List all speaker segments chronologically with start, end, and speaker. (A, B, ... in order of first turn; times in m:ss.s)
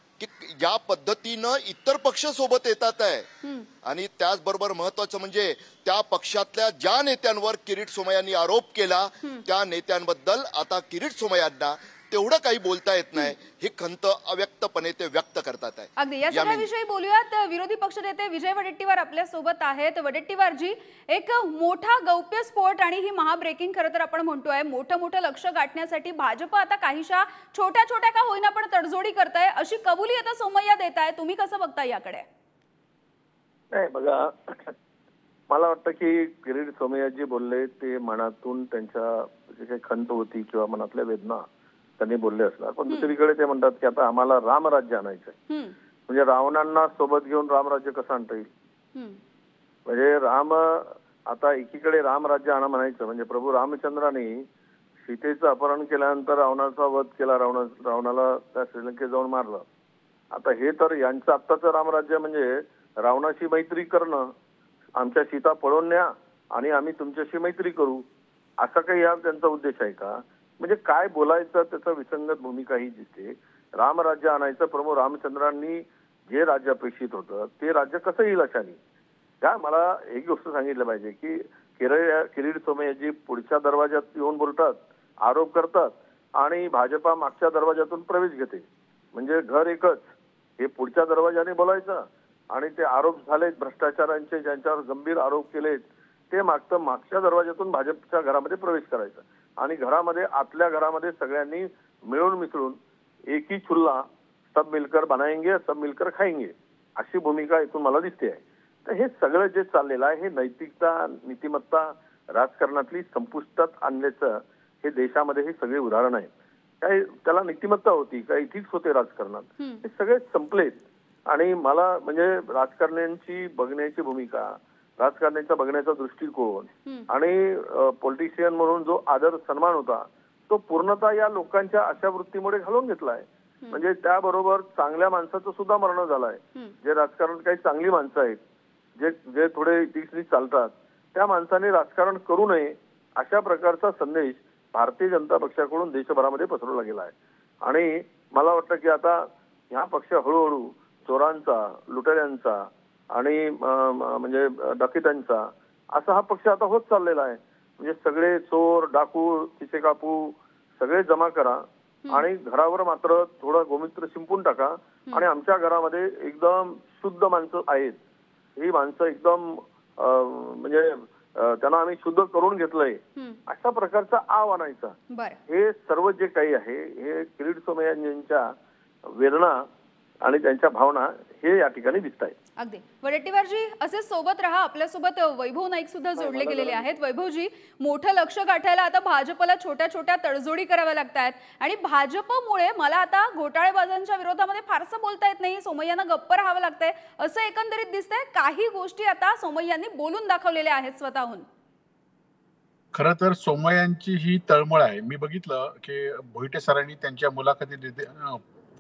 0:00.2-0:03.3 A
0:03.4-0:03.7 B
0:03.8-0:16.7 A
0:16.0-0:32.2 B
0:33.7-0:34.8 C
0:35.5-0:41.4 C
0:42.0-0:45.4 C
0:45.5-0:45.8 B
0:46.1-0:48.5 C
0:49.9-0:54.4 C
0:55.0-0:59.7 C
1:00.3-1:04.3 C
1:05.0-1:08.0 C
1:08.6-1:18.8 C
1:19.4-2:18.4 C
2:19.0-2:48.0 C
2:48.6-2:55.0 C
2:55.1-2:55.4 B
2:55.5-2:58.5 C
2:59.1-2:59.6 C
3:00.2-3:02.4 C
3:02.6-3:21.5 B
3:06.2-3:06.8 C
3:22.9-3:28.4 D